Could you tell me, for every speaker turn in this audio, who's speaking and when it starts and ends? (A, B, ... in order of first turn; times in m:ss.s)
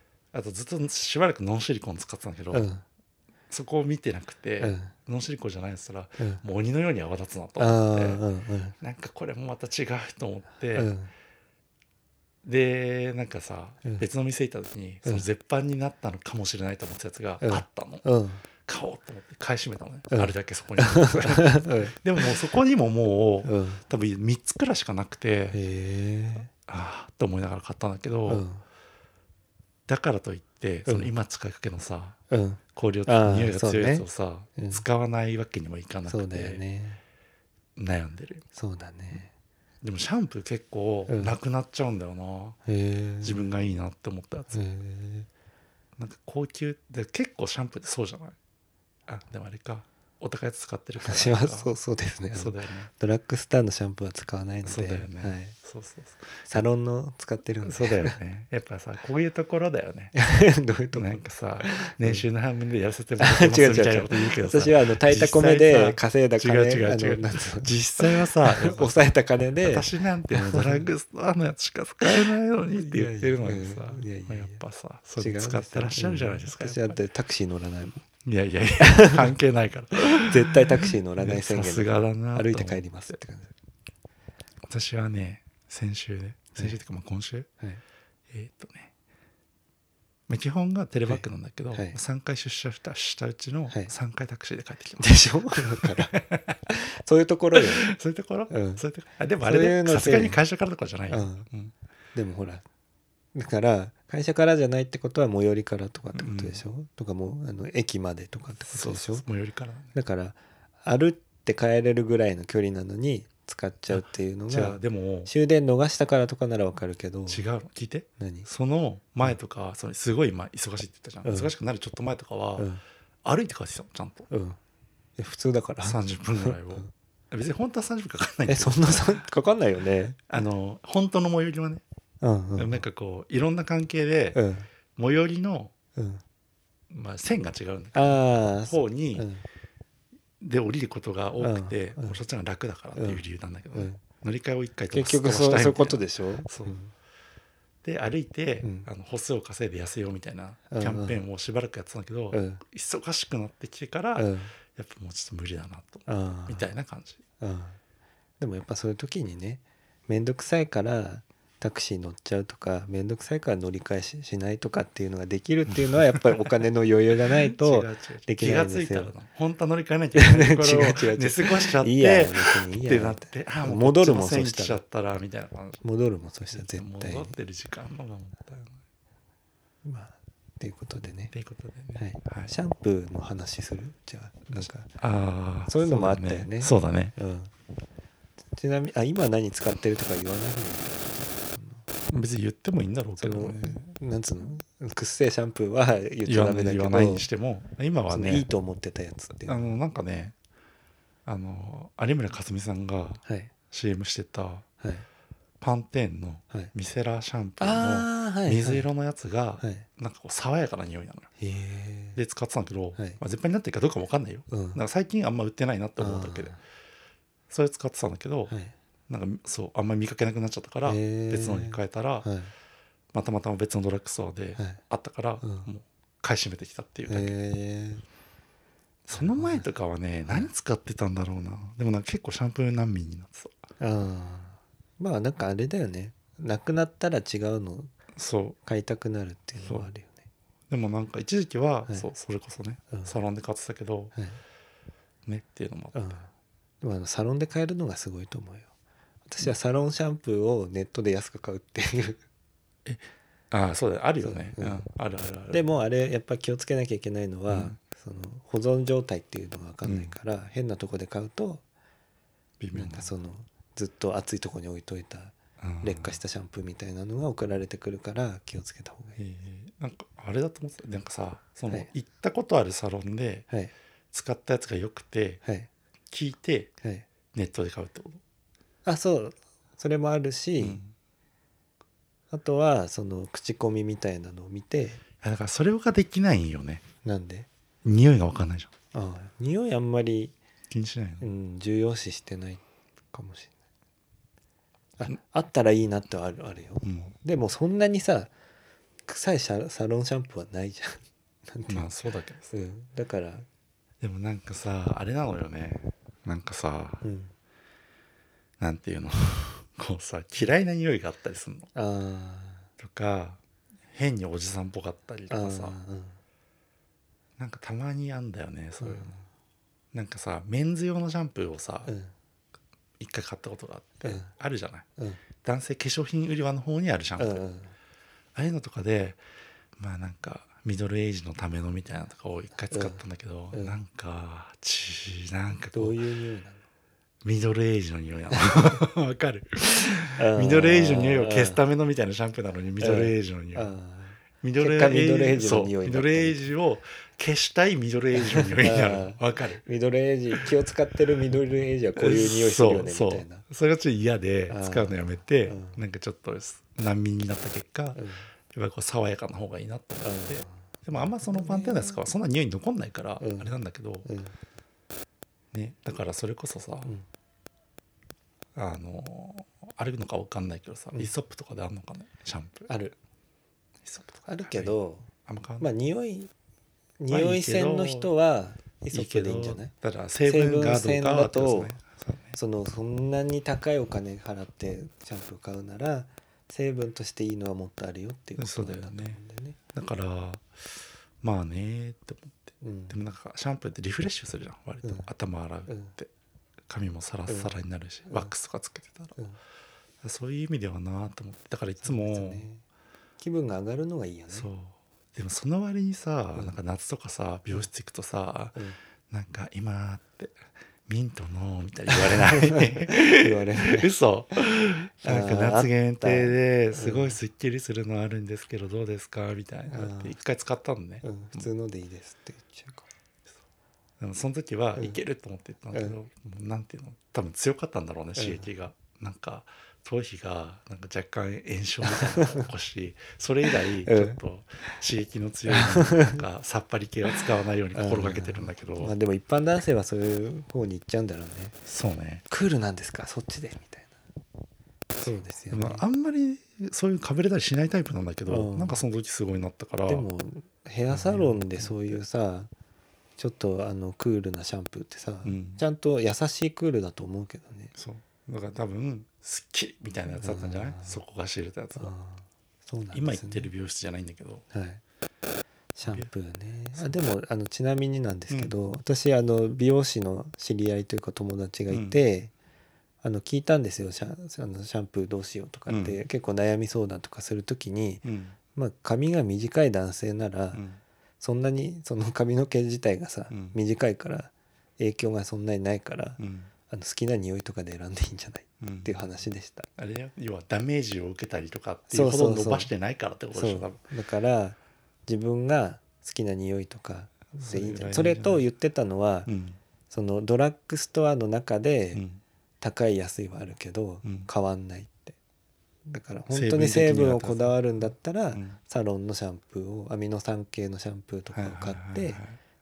0:00.3-0:02.6 A
0:02.5-0:02.8 B
0:03.5-0:08.2 A
0:04.6-0:04.9 B
0:07.6-0:08.8 B
0:08.8-0:10.9 A
0:10.7-0:11.1 B
0:12.4-0:18.0 A
0:17.4-0:18.4 B
0:18.6-0:25.6 A
0:20.1-0:22.4 B
0:23.4-0:23.8 B
0:25.5-0:26.5 B
0:26.5-0:28.4 A
0:28.3-0:28.6 B
0:29.9-0:32.2 A
0:30.8-0:31.1 B
0:32.3-0:34.8 B
0:32.7-0:36.6 A
0:36.1-0:37.0 B
0:37.8-0:38.4 A
0:38.5-0:39.3 B
0:39.8-0:42.6 A
0:41.1-0:41.4 B
0:42.6-0:43.4 B
0:43.2-0:44.6 A
0:44.5-0:45.3 B
0:46.0-0:48.4 A
0:49.1-0:51.7 A
0:51.0-0:55.5 B
0:52.3-0:52.9 A
0:54.6-0:56.6 A
0:56.5-0:58.2 B
0:57.6-1:00.1 A
1:00.1-1:02.2 B
1:00.9-1:09.0 A
1:03.2-1:10.9 B
1:09.6-1:17.0 A
1:12.7-1:14.6 B
1:15.2-1:18.0 B
1:18.2-1:20.6 A
1:18.8-1:19.3 B
1:20.1-1:23.5 B
1:21.2-1:23.2 A
1:24.6-1:27.5 A
1:28.3-1:28.9 A
1:30.3-1:36.6 A
1:31.1-1:32.0 B
1:35.0-1:36.2 B
1:36.7-1:37.9 B
1:37.5-1:41.7 A
1:38.5-1:38.8 B
1:39.4-1:40.4 B
1:41.1-1:41.5 B
1:42.1-1:42.6 B
1:43.3-1:49.2 B
1:46.1-1:46.6 A
1:48.6-1:49.9 A
1:49.9-1:57.4 B
1:53.9-1:55.3 A
1:57.3-2:02.7 A
1:58.2-1:58.5 B
2:01.2-2:01.5 B
2:02.6-2:02.8 B
2:03.2-2:04.3 A
2:04.3-2:04.6 B
2:05.2-2:06.9 B
2:05.8-2:09.1 A
2:08.5-2:10.3 B
2:10.3-2:11.8 A
2:12.2-2:12.8 B
2:12.6-2:14.4 A
2:14.3-2:14.7 B
2:15.0-2:15.7 A
2:16.0-2:16.2 B
2:16.9-2:19.3 A
2:17.9-2:19.4 B
2:20.4-2:26.8 A
2:21.4-2:22.2 B
2:23.0-2:23.2 B
2:23.7-2:24.0 B
2:24.9-2:26.9 B
2:27.8-2:37.2 A
2:28.6-2:28.9 B
2:30.7-2:31.2 B
2:32.3-2:32.6 B
2:34.2-2:34.5 B
2:36.1-2:36.7 B
2:37.4-2:37.8 B
2:38.4-2:49.1 B
2:45.7-2:46.6 A
2:47.2-2:55.8 A
2:50.1-2:54.8 B
2:55.8-2:57.4 B
2:56.4-2:58.8 A
2:59.8-3:01.3 B
3:01.3-3:02.5 A
3:02.0-3:04.9 B
3:04.5-3:07.1 A
3:05.7-3:07.5 B
3:08.5-3:11.8 B
3:12.1-3:13.9 A
3:13.2-3:17.3 B
3:16.2-3:18.5 A
3:18.1-3:19.8 B
3:19.4-3:20.3 A
3:21.2-3:24.6 A
3:23.2-3:23.5 B
3:24.8-3:25.0 B
3:25.6-3:31.3 A
3:27.6-3:28.8 B
3:29.6-3:29.8 B
3:31.4-3:32.2 B
3:32.2-3:36.5 A
3:34.5-3:34.8 B
3:36.0-3:36.6 B
3:37.5-3:38.5 A
3:38.5-3:38.7 B
3:39.1-3:42.3 A
3:40.8-3:42.5 B
3:43.1-3:47.3 A
3:45.4-3:45.7 B
3:47.1-3:48.0 B
3:49.0-3:53.6 A
3:49.1-3:49.7 B
3:53.8-3:57.9 B
3:58.1-3:58.6 A
3:58.6-4:00.2 B
3:59.6-3:59.9 A
4:00.7-4:04.1 A
4:04.1-4:04.4 B
4:05.2-4:06.1 A
4:05.9-4:06.3 B
4:06.8-4:08.7 B
4:09.3-4:12.2 B
4:12.8-4:15.6 A
4:14.2-4:14.8 B
4:15.5-4:21.6 B
4:17.5-4:17.8 A
4:19.8-4:20.1 A
4:22.6-4:23.1 A
4:22.7-4:29.2 B
4:25.6-4:26.2 A
4:29.2-4:33.5 A
4:34.1-4:35.4 A
4:35.4-4:35.7 B
4:36.1-4:36.7 A
4:37.3-4:38.2 A
4:38.8-4:40.8 B
4:40.6-4:40.9 A
4:42.3-4:45.0 B
4:45.2-4:46.8 A
4:47.0-4:47.5 B
4:47.8-4:48.7 A
4:48.9-4:50.3 B
4:50.7-4:51.3 A
4:51.2-4:53.5 B
4:55.0-4:58.3 B
4:56.8-4:57.1 A
4:59.1-5:01.9 B
5:01.7-5:02.5 A
5:02.5-5:03.4 B
5:04.0-5:07.0 A
5:07.0-5:07.3 B
5:08.6-5:11.7 A
5:11.7-5:12.7 B
5:12.8-5:15.8 A
5:15.3-5:16.2 B
5:17.4-5:19.1 A
5:18.8-5:19.2 B
5:19.9-5:21.9 A
5:21.8-5:22.1 B
5:23.0-5:24.8 A
5:24.0-5:24.3 B
5:25.4-5:27.4 A
5:27.2-5:27.7 B
5:28.3-5:29.2 A
5:29.8-5:36.0 A
5:32.7-5:33.0 B
5:33.5-5:33.8 B
5:35.7-5:36.6 B
5:37.2-5:43.7 A
5:38.3-5:38.7 B
5:40.2-5:41.6 B
5:42.8-5:46.5 B
5:44.4-5:49.6 A
5:48.2-5:53.4 B
5:52.0-5:58.0 A
5:54.5-5:55.8 B
5:57.9-5:58.3 B
5:58.5-6:04.1 A
6:00.0-6:00.5 B
6:01.2-6:02.0 B
6:03.2-6:03.5 B
6:04.0-6:04.3 B
6:05.5-6:06.9 A
6:08.5-6:12.7 A
6:12.7-6:13.0 B
6:13.8-6:14.7 A
6:14.2-6:16.3 B
6:15.2-6:15.7 A
6:17.0-6:19.7 B
6:17.1-6:18.1 A
6:18.9-6:22.4 A
6:20.2-6:21.8 B
6:22.4-6:29.6 B
6:28.4-6:29.2 A
6:29.7-6:36.1 A
6:32.6-6:33.0 B
6:34.8-6:35.1 B
6:35.7-6:35.9 B
6:36.7-6:39.2 A
6:37.3-6:37.5 B
6:40.0-6:42.5 A
6:41.8-6:42.6 B
6:43.2-6:44.5 B
6:44.3-6:48.6 A
6:49.1-7:01.5 A
6:51.9-6:53.9 B
6:55.0-6:57.2 B
6:59.7-7:00.1 B
7:01.0-7:02.9 B
7:04.0-7:18.9 A
7:08.2-7:08.5 B
7:11.8-7:12.5 B
7:13.8-7:14.2 B
7:15.5-7:16.2 B
7:17.7-7:21.6 B
7:21.6-7:22.2 A
7:22.3-7:23.9 B
7:25.0-7:25.8 B
7:25.5-7:30.1 A
7:28.3-7:28.8 B
7:29.9-7:32.5 B
7:30.9-7:32.0 A
7:33.2-7:37.7 B
7:35.2-7:35.6 A
7:37.8-7:41.9 A
7:40.1-7:41.0 B
7:41.8-7:43.5 B
7:42.9-7:44.4 A
7:44.5-7:44.8 B
7:45.7-7:52.3 B
7:51.7-7:52.0 A
7:53.0-8:00.6 B
7:55.7-7:56.0 A
7:58.0-7:58.4 A
8:00.5-8:00.8 A
8:01.2-8:09.7 B
8:03.3-8:03.6 A
8:06.2-8:06.5 A
8:08.6-8:09.0 A
8:09.8-8:13.8 A
8:11.9-8:12.7 B
8:13.3-8:19.3 B
8:17.4-8:18.4 A
8:19.3-8:19.6 A
8:19.9-8:22.0 B
8:21.9-8:22.2 A
8:22.6-8:25.2 B
8:24.0-8:24.3 A
8:25.9-8:32.2 B
8:26.3-8:28.6 A
8:31.3-8:32.4 A